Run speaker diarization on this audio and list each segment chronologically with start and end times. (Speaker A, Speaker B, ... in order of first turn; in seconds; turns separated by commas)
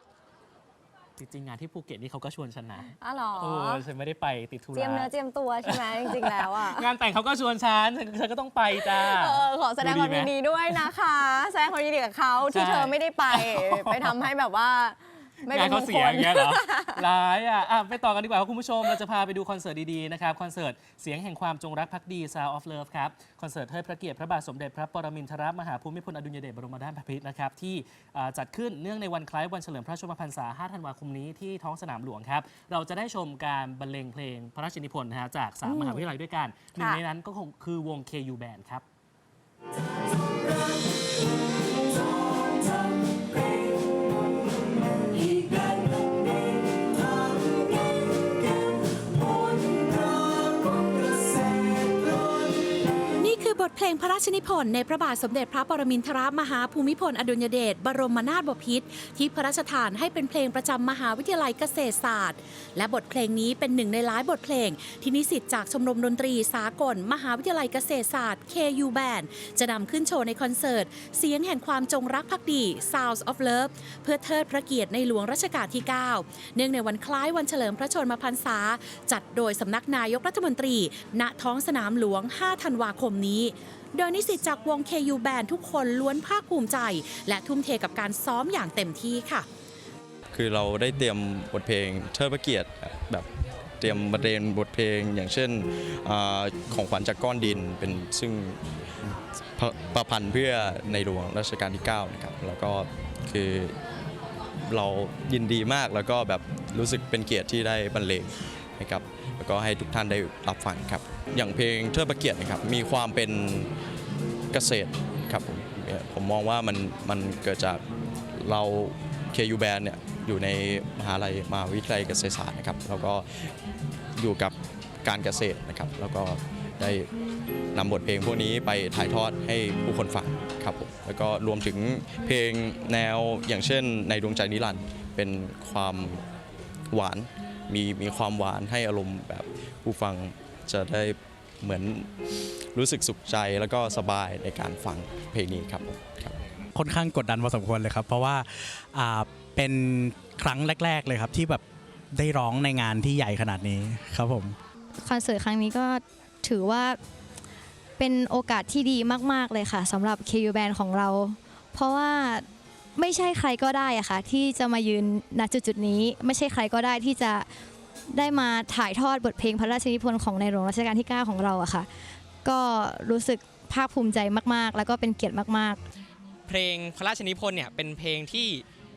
Speaker A: 1.2-5.1, Speaker B: 3.0-3.8, Speaker B: 4.7-6.9, Speaker A: 5.6-10.8, Speaker B: 8.8-16.9, Speaker A: 12.5-14.3, Speaker A: 15.5-38.8, Speaker B: 35.6-36.0, Speaker B: 36.7-37.0, Speaker C: 53.2-89.5, Speaker D: 90.3-93.3, Speaker D: 93.8-98.6, Speaker D: 99.6-103.8, Speaker D: 104.7-113.7, Speaker D: 114.5-117.8, Speaker D: 118.3-123.5, Speaker D: 124.2-127.1, Speaker D: 127.7-136.2, Speaker D: 136.9-142.1, Speaker D: 142.7-146.4, Speaker E: 146.7-151.6, Speaker E: 152.1-154.6, Speaker F: 155.0-157.0, Speaker F: 158.0-167.5, Speaker F: 168.1-171.9, Speaker F: 172.4-175.8, Speaker G: 176.5-178.6